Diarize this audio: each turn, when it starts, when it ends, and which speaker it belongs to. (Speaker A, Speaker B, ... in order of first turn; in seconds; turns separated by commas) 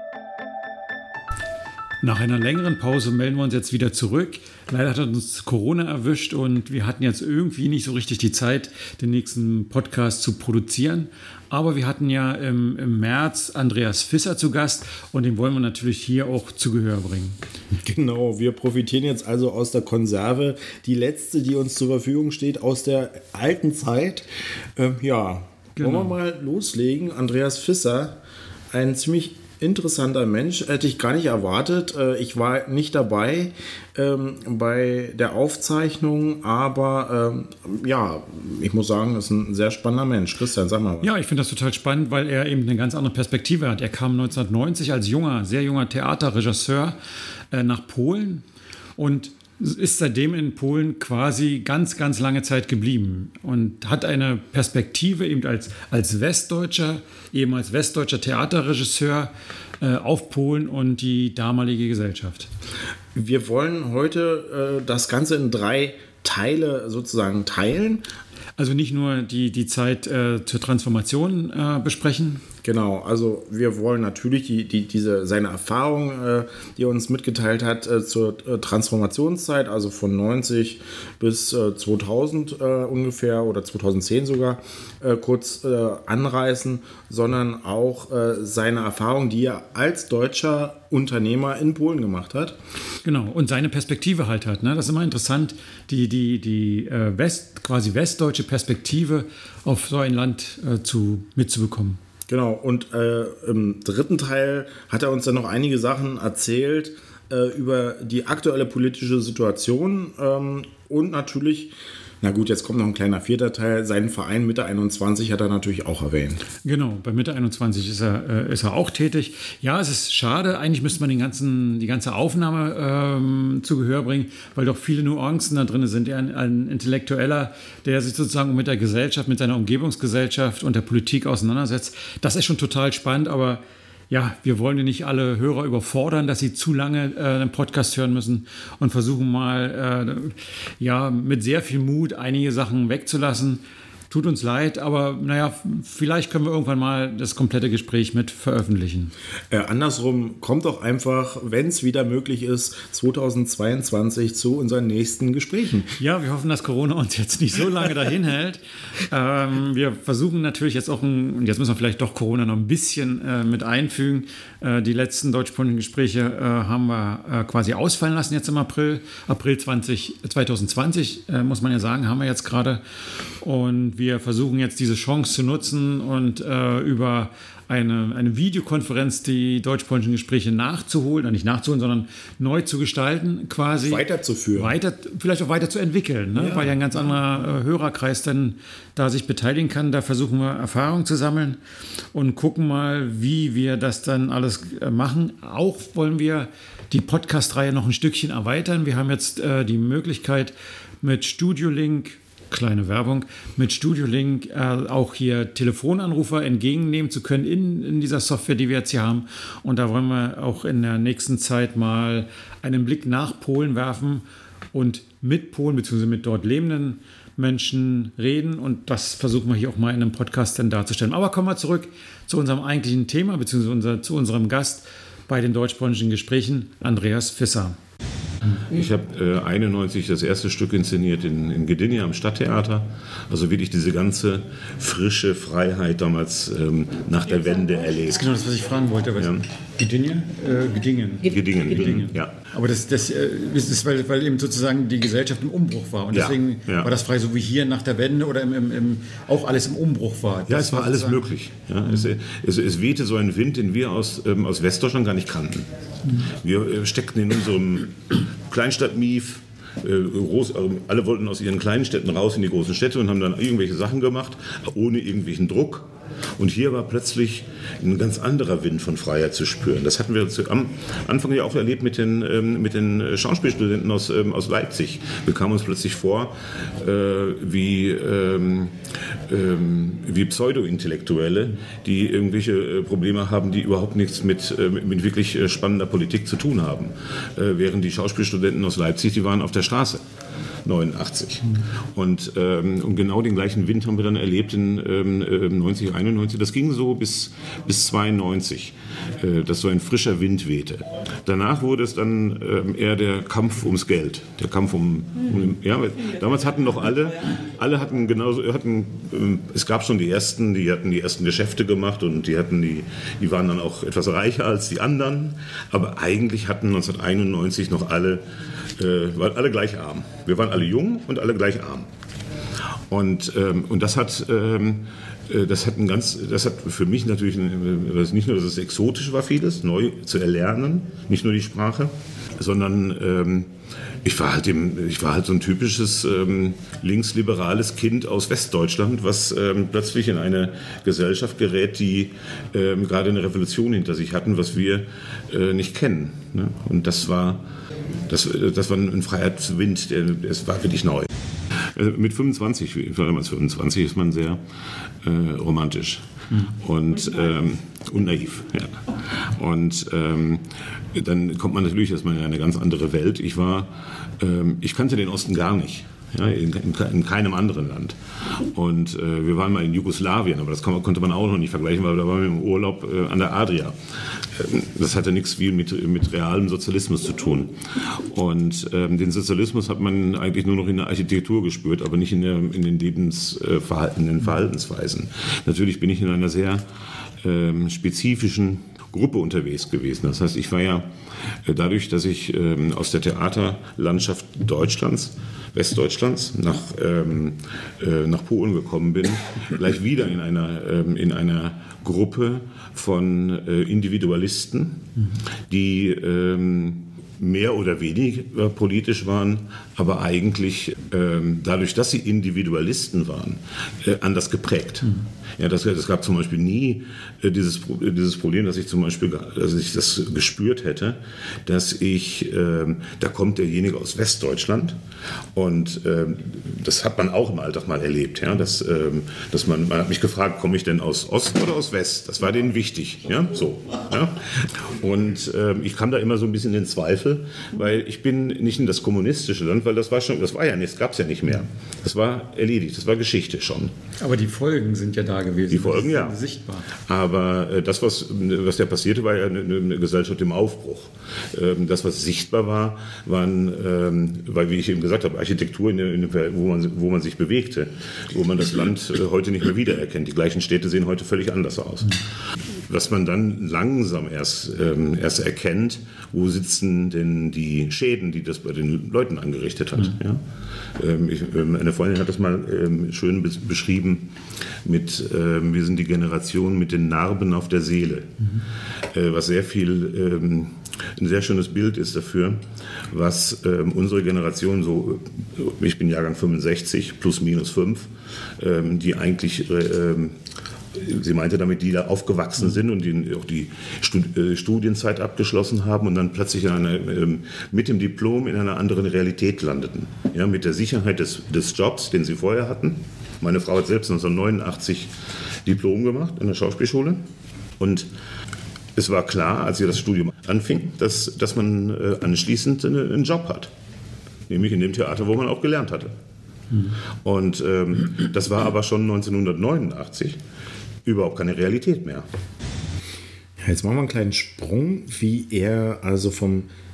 Speaker A: 2.0-17.4, Speaker B: 17.8-28.2, Speaker A: 25.8-26.1, Speaker B: 28.7-41.1, Speaker A: 41.0-47.0, Speaker A: 47.5-48.4, Speaker A: 49.0-62.5, Speaker B: 63.1-68.0, Speaker A: 68.6-72.4, Speaker B: 72.6-92.6, Speaker A: 93.0-102.0, Speaker B: 102.3-116.4, Speaker A: 116.6-149.1, Speaker B: 149.5-156.0, Speaker A: 156.0-172.8, Speaker A: 173.4-184.0, Speaker B: 183.8-184.7, Speaker A: 184.6-191.6, Speaker B: 186.3-186.7, Speaker A: 192.1-227.8, Speaker C: 228.6-238.2, Speaker A: 238.1-251.2, Speaker C: 241.3-242.3, Speaker C: 246.1-246.9, Speaker C: 250.5-255.7, Speaker C: 256.2-290.0, Speaker C: 290.6-318.2, Speaker C: 318.8-321.9, Speaker C: 322.9-333.5, Speaker C: 334.0-347.5, Speaker C: 348.1-354.4, Speaker C: 355.0-373.8, Speaker C: 374.3-386.6, Speaker C: 387.2-390.9, Speaker C: 391.4-404.9, Speaker C: 405.5-424.8, Speaker C: 425.3-443.7, Speaker A: 444.0-446.6, Speaker C: 445.5-446.1, Speaker C: 446.8-462.0, Speaker C: 462.7-470.2, Speaker C: 470.8-474.1, Speaker C: 474.6-478.2, Speaker C: 478.9-490.2, Speaker C: 490.7-504.9, Speaker C: 505.4-507.0, Speaker C: 507.6-507.9, Speaker C: 508.8-513.5, Speaker C: 514.3-515.9, Speaker C: 517.0-520.2, Speaker C: 520.8-522.0, Speaker B: 523.4-526.5